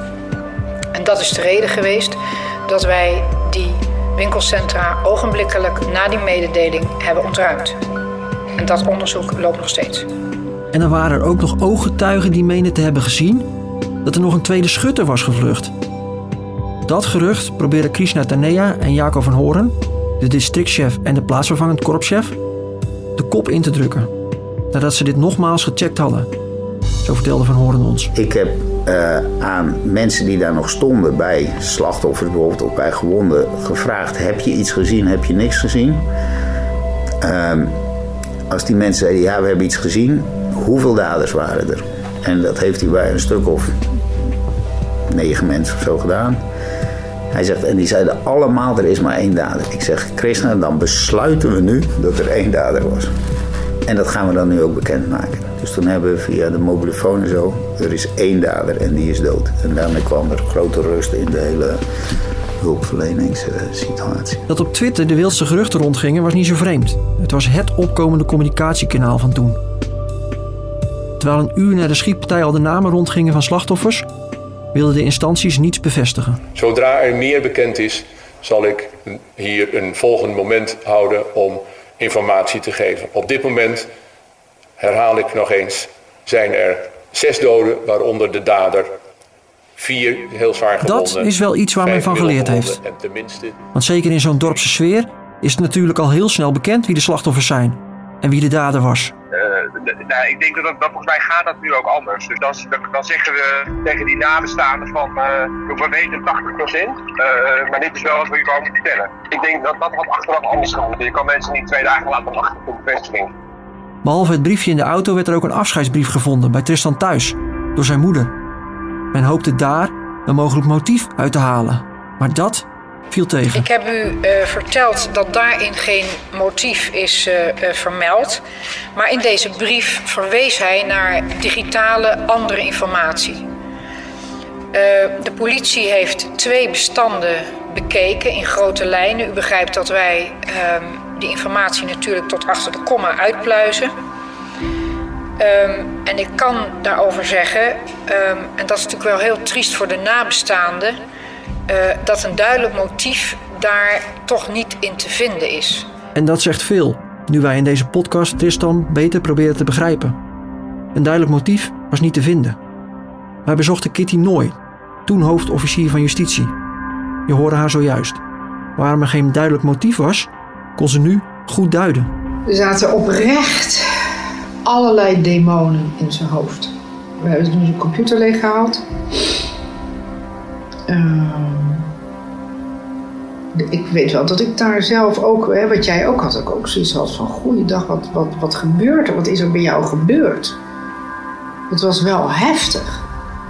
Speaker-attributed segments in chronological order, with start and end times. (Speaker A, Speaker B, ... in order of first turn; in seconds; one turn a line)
Speaker A: 0.9-2.1
Speaker A: 2.7-7.7
Speaker A: 8.6-10.0
Speaker B: 10.7-13.5
Speaker B: 14.0-15.7
Speaker B: 16.9-22.4
Speaker B: 23.2-24.1
Speaker B: 24.7-26.3
Speaker B: 27.0-28.1
Speaker C: 28.1-36.1
Speaker C: 37.2-37.8
Speaker C: 38.5-43.8
Speaker C: 45.1-46.4
Speaker C: 47.3-53.1
Speaker C: 53.9-61.8
Speaker C: 62.6-64.4
Speaker B: 64.5-69.6
Speaker B: 71.2-74.1
Speaker B: 74.7-76.4
Speaker D: 76.5-83.9
Speaker D: 84.8-89.0
Speaker D: 89.8-93.6
Speaker B: 90.8-92.8
Speaker B: 93.7-99.1
Speaker E: 99.3-113.3
Speaker B: 114.0-118.3
Speaker B: 119.1-123.7
Speaker A: 123.6-128.4
Speaker A: 129.0-133.4
Speaker A: 134.7-143.9
Speaker A: 145.4-150.9
Speaker A: 151.7-155.8
Speaker B: 156.1-160.2
Speaker B: 160.9-162.6
Speaker B: 163.4-166.5
Speaker B: 167.3-168.2
Speaker B: 168.8-172.1
Speaker A: 172.5-173.8
Speaker A: 174.6-178.8
Speaker A: 180.9-181.8
Speaker A: 183.5-190.5
Speaker A: 191.7-193.0